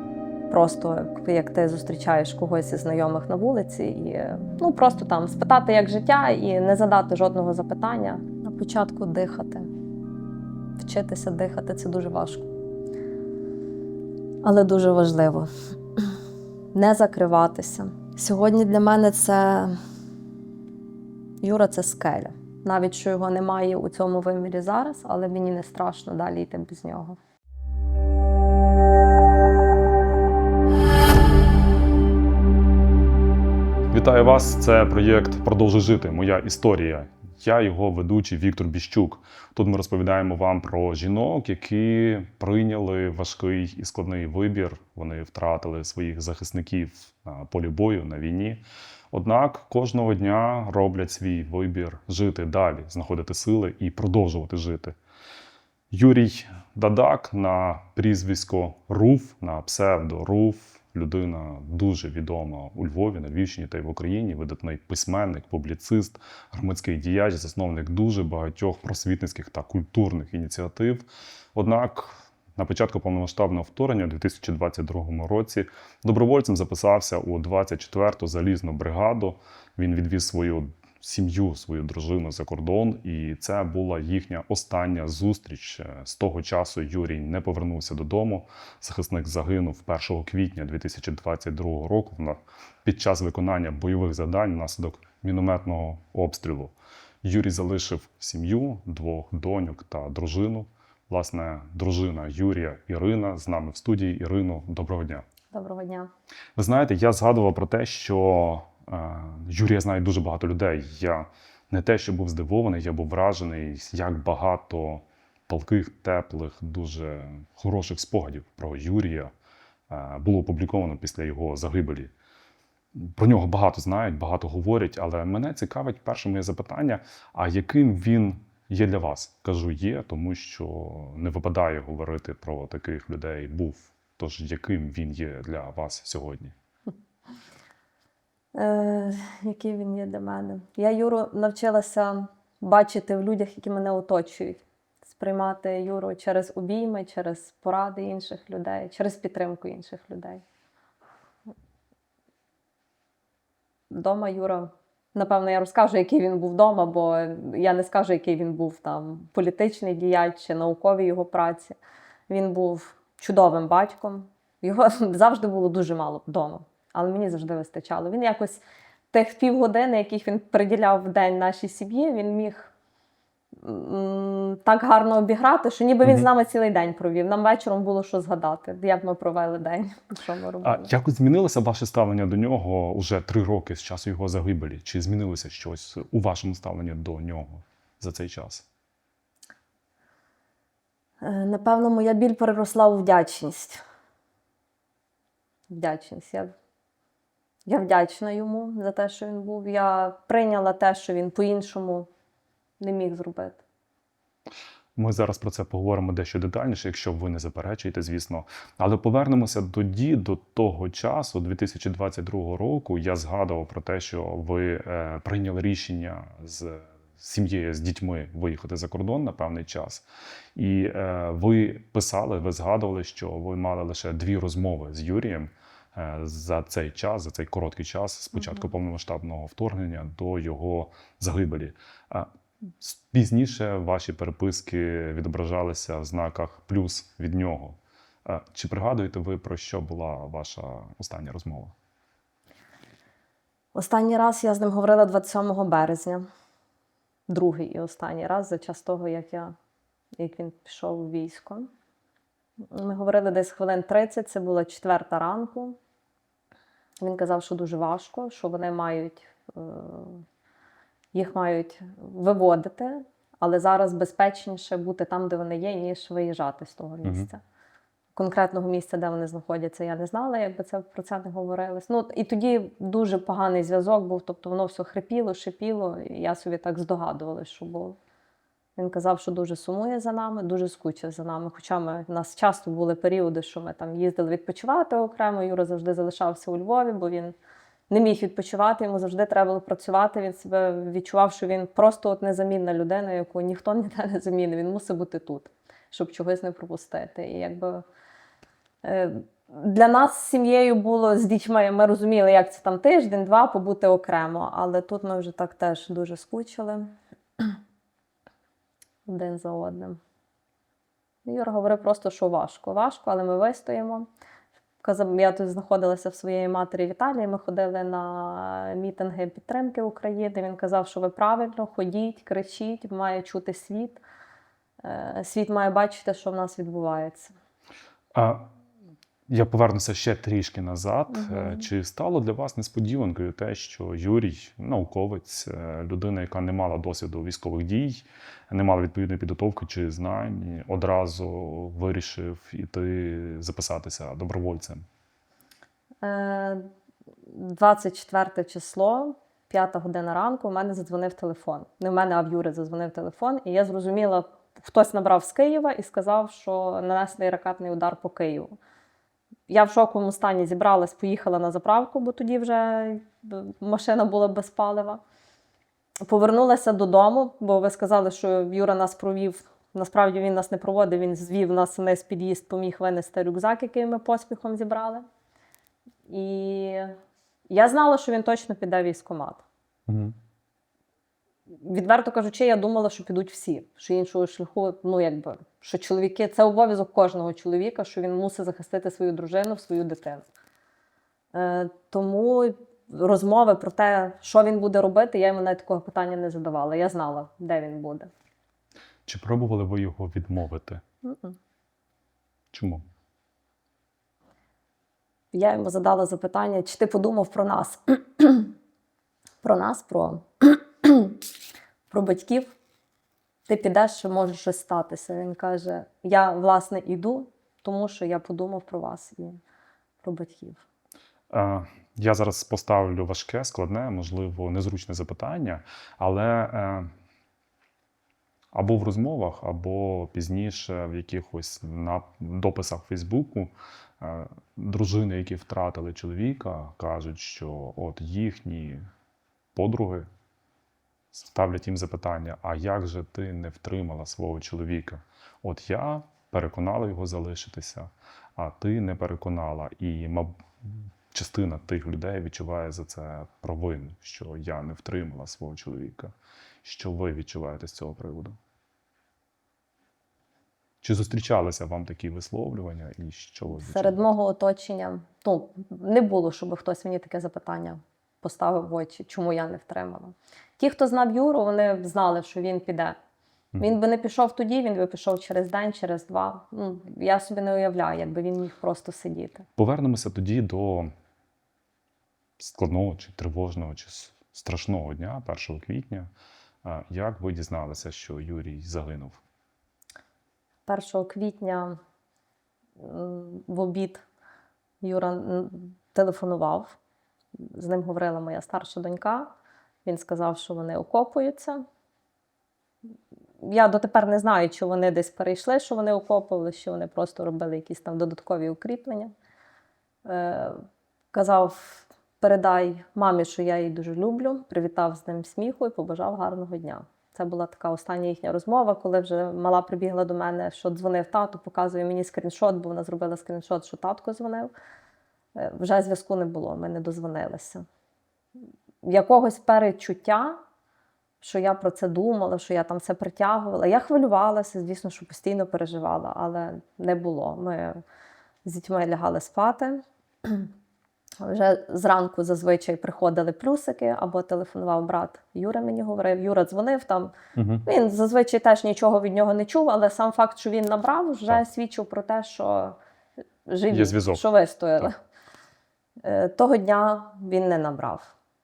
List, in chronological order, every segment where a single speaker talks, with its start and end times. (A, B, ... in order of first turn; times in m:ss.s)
0:00.5-0:09.7 A
0:10.8-0:12.5 A
0:14.4-0:16.1 A
0:16.7-0:19.8 A
0:21.4-0:27.2 A
0:33.9-0:55.0 B
0:55.9-1:45.2 B
1:45.5-1:46.1 A
1:46.6-1:59.3 B
1:59.9-2:02.1 B
2:02.9-2:16.5 B
2:18.5-2:30.4 A
2:33.9-2:41.8 A
2:42.3-2:52.7 A
2:53.6-3:00.9 A
3:00.6-3:08.7 B
3:11.2-3:13.8 A
3:15.7-3:16.5 A
3:17.7-3:22.1 A
3:22.8-3:23.6 A
3:25.0-4:01.7 B
4:03.7-4:06.2 A
4:07.3-4:09.5 A
4:10.2-4:11.7 A
4:12.7-4:15.8 A
4:17.0-4:20.2 A
4:21.1-4:27.4 A
4:28.1-4:38.0 A
4:38.8-4:47.3 A
4:47.9-4:57.8 A
4:58.8-5:07.6 A
5:09.1-5:10.0 A
5:11.2-5:14.1 A
5:14.8-5:24.0 A
5:24.8-5:27.3 A
5:28.1-5:28.5 B
5:29.3-5:44.8 B
5:31.1-5:31.7 A
5:46.0-5:46.7 A
5:47.3-5:58.6 A
5:59.5-6:05.0 A
6:06.0-6:15.0 A
6:16.1-6:17.0 A
6:17.5-6:19.4 A
6:19.9-6:20.2 B
6:21.5-6:30.2 A
6:31.3-6:38.1 A
6:39.0-6:40.8 B
6:41.0-6:41.4 A
6:42.5-6:42.8 B
6:45.3-6:48.5 A
6:49.4-6:51.2 A
6:51.9-6:52.6 A
6:53.5-6:59.4 A
7:00.0-7:00.6 A
7:01.3-7:06.9 B
7:08.5-7:18.8 B
7:19.5-7:20.1 B
7:21.1-7:38.4 B
7:40.8-7:44.1 B
7:43.5-7:53.0 A
7:53.6-7:59.5 A
7:59.6-8:00.9 B
8:02.4-8:06.1 B
8:06.6-8:09.2 B
8:10.7-8:11.8 A
8:12.8-8:14.0 A
8:14.8-8:16.8 A
8:17.4-8:19.3 A
8:19.8-8:21.6 A
8:23.4-8:29.1 A
8:30.0-8:44.5 A
8:45.4-8:47.6 A
8:48.8-8:50.4 A
8:51.2-8:57.8 A
8:58.4-9:00.5 A
9:01.2-9:07.1 A
9:07.3-9:07.6 B
9:07.6-9:12.8 A
9:13.4-9:15.0 A
9:13.7-9:14.2 B
9:16.0-9:18.1 A